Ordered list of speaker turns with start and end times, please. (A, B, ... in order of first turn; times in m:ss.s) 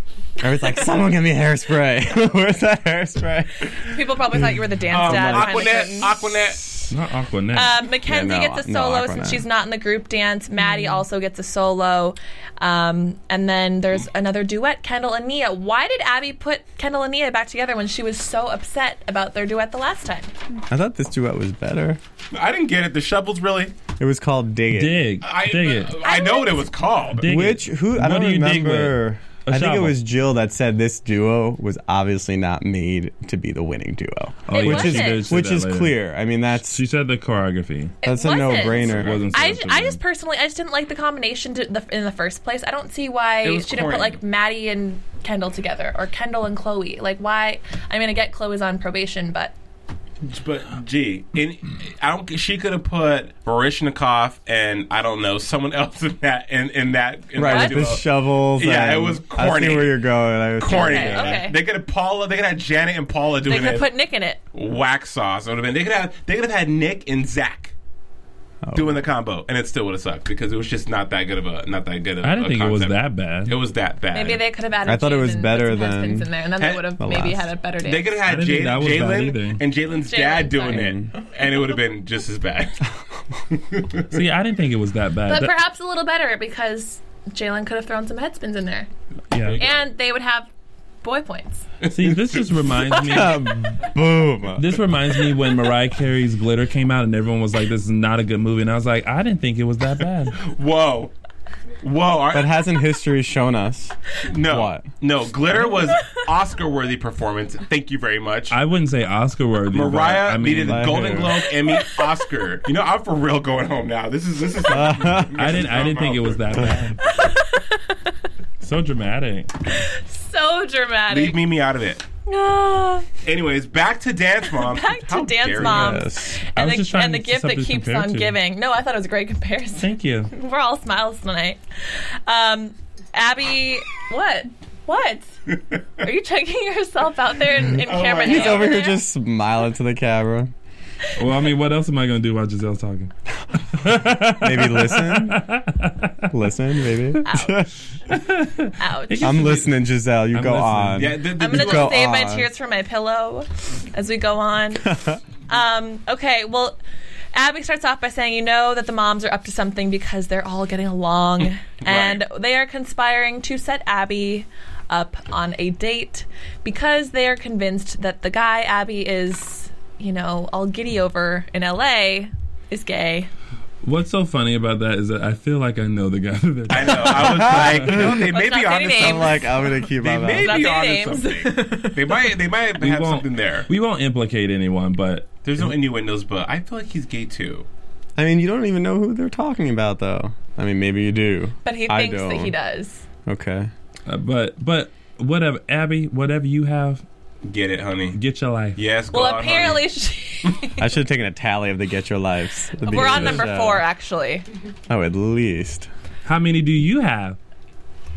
0:00.4-0:03.8 A
0:03.8-0:06.5 B
0:04.9-0:06.9 C
0:04.9-0:05.9 A
0:06.9-0:07.8 D
0:07.5-0:20.3 B
0:08.0-0:09.4 A
0:20.7-0:22.0 A
0:22.3-0:23.8 C
0:24.0-0:25.0 A
0:24.7-0:25.9 D
0:25.2-0:27.3 C
0:26.0-0:26.7 B
0:27.2-0:30.0 D
0:27.2-0:36.8 A
0:34.5-0:36.0 D
0:34.5-0:35.2 B
0:36.6-0:38.0 D
0:38.0-0:49.5 B
0:38.0-0:39.2 A
0:38.5-0:39.3 C
0:38.9-0:40.0 D
0:43.4-0:44.2 C
0:50.2-1:00.0 C
0:57.4-1:01.4 A
0:57.4-0:58.0 B
1:00.6-1:03.9 C
1:00.7-1:01.6 B
1:03.5-1:04.4 B
1:04.5-1:07.7 C
1:08.6-1:09.0 A
1:08.7-1:14.4 C
1:12.2-1:13.6 D
1:14.1-1:18.2 B
1:14.9-1:16.3 A
1:16.6-1:16.9 C
1:17.0-1:17.5 A
1:17.8-1:22.9 C
1:18.2-1:19.6 D
1:20.1-1:20.9 B
1:20.7-1:21.1 A
1:23.5-1:24.2 C
1:24.1-1:25.6 D
1:25.3-1:28.9 B
1:29.3-1:29.6 D
1:29.4-1:29.8 C
1:29.6-1:30.5 B
1:31.0-1:31.6 B
1:31.8-1:32.4 C
1:31.8-1:33.5 D
1:33.0-1:34.8 A
1:34.6-1:40.4 D
1:40.4-1:41.1 C
1:41.8-1:42.5 C
1:42.3-1:43.9 A
1:44.3-1:48.6 C
1:44.4-1:44.9 A
1:48.5-1:51.3 D
1:49.7-1:56.9 C
1:50.6-1:51.3 A
1:54.7-1:55.6 A
1:55.4-1:57.0 D
1:57.0-1:58.1 B
1:58.6-1:59.5 D
1:59.8-2:01.4 B
2:01.1-2:02.0 C
2:02.3-2:03.1 B
2:03.2-2:06.1 C
2:04.5-2:11.6 B
2:05.6-2:06.4 A
2:06.6-2:08.4 D
2:09.8-2:10.3 D
2:12.3-2:15.4 B
2:16.0-2:19.0 B
2:17.8-2:18.8 C
2:18.2-2:20.5 A
2:21.2-2:23.1 D
2:23.8-2:26.1 D
2:24.0-2:25.5 A
2:26.3-2:27.7 A
2:27.2-2:27.7 B
2:28.1-2:29.8 D
2:28.8-2:29.6 B
2:29.2-2:32.5 A
2:30.3-2:31.2 D
2:31.0-2:32.0 C
2:31.4-2:36.8 B
2:34.9-2:35.2 A
2:37.3-2:53.3 B
2:41.8-2:42.2 C
2:53.8-2:58.1 D
2:56.7-2:59.4 C
2:57.0-2:58.2 A
2:58.0-2:59.5 B
2:58.9-3:00.7 A
3:00.0-3:03.7 C
3:00.4-3:02.2 B
3:02.8-3:05.3 D
3:05.4-3:07.7 C
3:08.2-3:12.6 A
3:11.6-3:13.0 B
3:13.3-3:13.7 A
3:14.1-3:17.0 D
3:17.4-3:18.2 C
3:18.1-3:18.8 D
3:18.8-3:19.9 C
3:19.1-3:20.8 B
3:20.8-3:23.8 A
3:22.8-3:24.4 B
3:23.0-3:23.2 C
3:24.9-3:25.9 A
3:26.2-3:27.4 D